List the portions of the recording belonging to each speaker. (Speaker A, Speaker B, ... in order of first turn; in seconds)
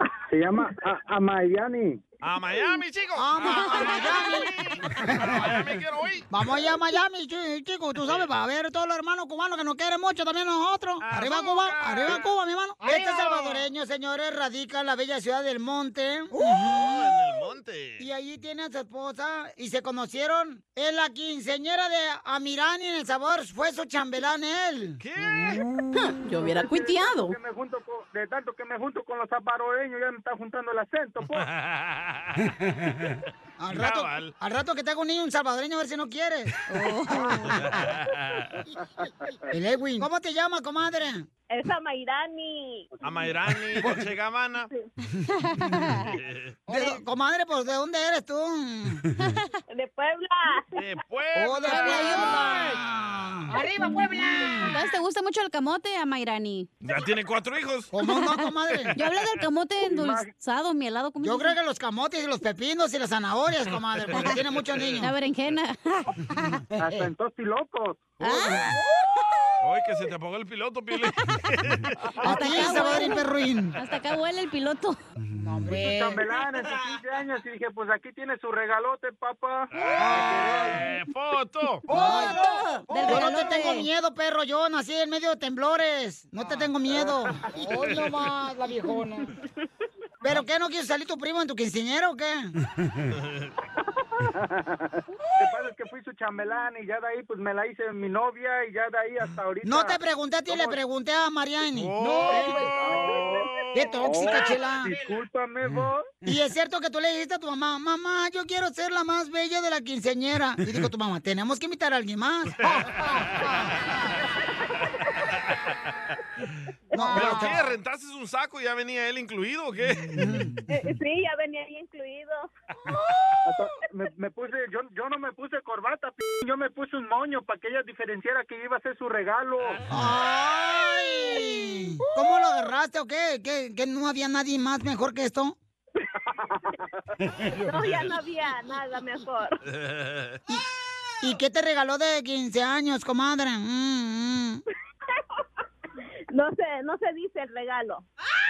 Speaker A: 0.3-2.0, 26.3-31.4, 59.9-60.3, 66.8-68.2, 75.7-80.8, 94.4-94.9, 95.4-100.8, 102.7-103.5, 104.0-106.1, 123.5-129.8
Speaker B: 2.2-6.3, 11.0-12.3, 16.6-18.1, 25.0-25.6, 31.3-32.5, 33.7-34.3, 37.5-38.6, 43.0-44.7, 46.1-46.5, 50.8-52.8, 56.8-57.9, 69.6-72.0, 79.7-81.8, 101.8-104.3, 112.6-113.5, 117.0-120.2, 139.7-140.4
Speaker C: 3.2-4.5, 5.0-5.6, 6.3-17.1, 18.0-25.0, 33.6-37.7, 39.5-41.3, 46.7-49.1, 51.4-54.8, 57.9-58.9, 61.2-65.1, 66.5-67.1, 72.2-73.8, 75.2-76.2, 80.0-80.8, 81.9-89.3, 90.2-92.5, 99.7-102.7, 103.8-105.0, 106.2-113.2, 116.9-117.8, 120.1-120.6, 129.9-135.6, 141.2-144.6
Speaker D: 26.0-27.4, 36.7-37.6, 45.4-46.1, 51.7-52.7, 54.7-56.7, 59.0-61.5, 65.0-66.6, 68.2-68.8, 72.2-75.0, 81.9-83.9
Speaker E: 41.5-42.9, 49.7-50.8, 116.9-117.2, 120.7-122.5, 137.6-139.6, 146.3-148.1